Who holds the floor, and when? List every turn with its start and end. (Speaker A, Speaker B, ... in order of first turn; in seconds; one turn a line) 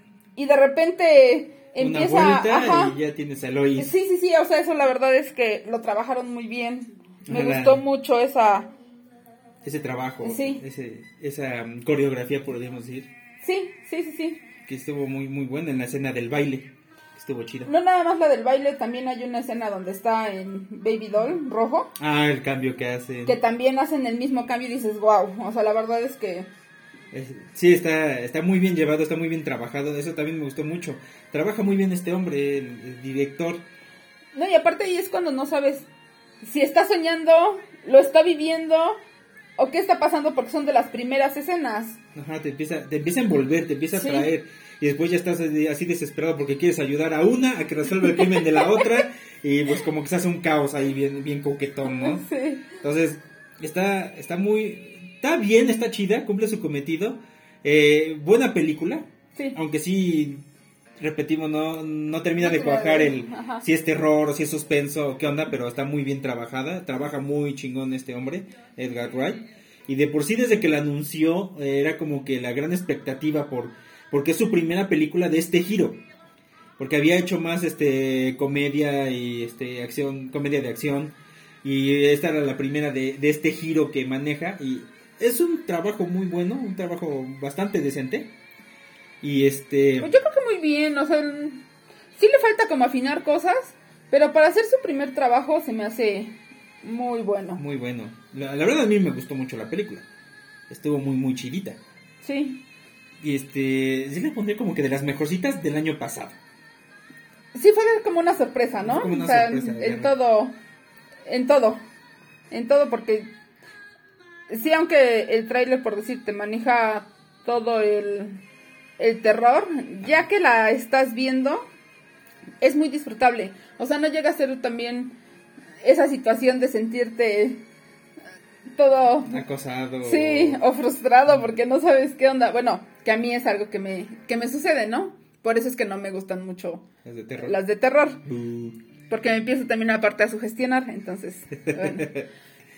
Speaker A: 0.3-3.0
Speaker B: 1.8-3.9
Speaker A: 3.8-8.7
Speaker B: 7.2-7.8
Speaker B: 9.6-13.1
Speaker A: 10.2-10.6
Speaker A: 13.4-14.4
Speaker B: 14.7-17.7
Speaker A: 17.6-21.9
Speaker B: 21.9-23.3
Speaker A: 23.2-26.5
Speaker B: 27.1-33.6
Speaker A: 34.3-35.9
Speaker A: 36.4-39.0
Speaker A: 39.6-42.0
Speaker B: 42.1-52.3
Speaker A: 43.9-44.3
Speaker A: 48.2-48.9
Speaker A: 51.9-52.7
Speaker B: 52.8-60.4
Speaker B: 61.0-76.0
Speaker A: 62.4-63.6
Speaker B: 76.8-88.3
Speaker B: 89.2-90.1
Speaker A: 90.0-97.6
Speaker B: 97.6-100.0
Speaker B: 100.7-101.8
Speaker A: 102.2-102.6
Speaker B: 103.2-106.3
Speaker A: 107.5-110.5
Speaker B: 108.8-110.1
Speaker A: 111.2-111.8
Speaker A: 112.5-113.3
Speaker A: 114.5-118.4
Speaker A: 119.0-121.6
Speaker A: 122.6-125.2
Speaker A: 125.8-127.6
Speaker A: 128.7-129.4
Speaker B: 129.3-130.6
Speaker A: 130.0-136.8
Speaker B: 137.0-137.6
Speaker A: 137.4-138.3
Speaker B: 138.3-138.7
Speaker A: 139.1-142.2
Speaker B: 141.7-142.2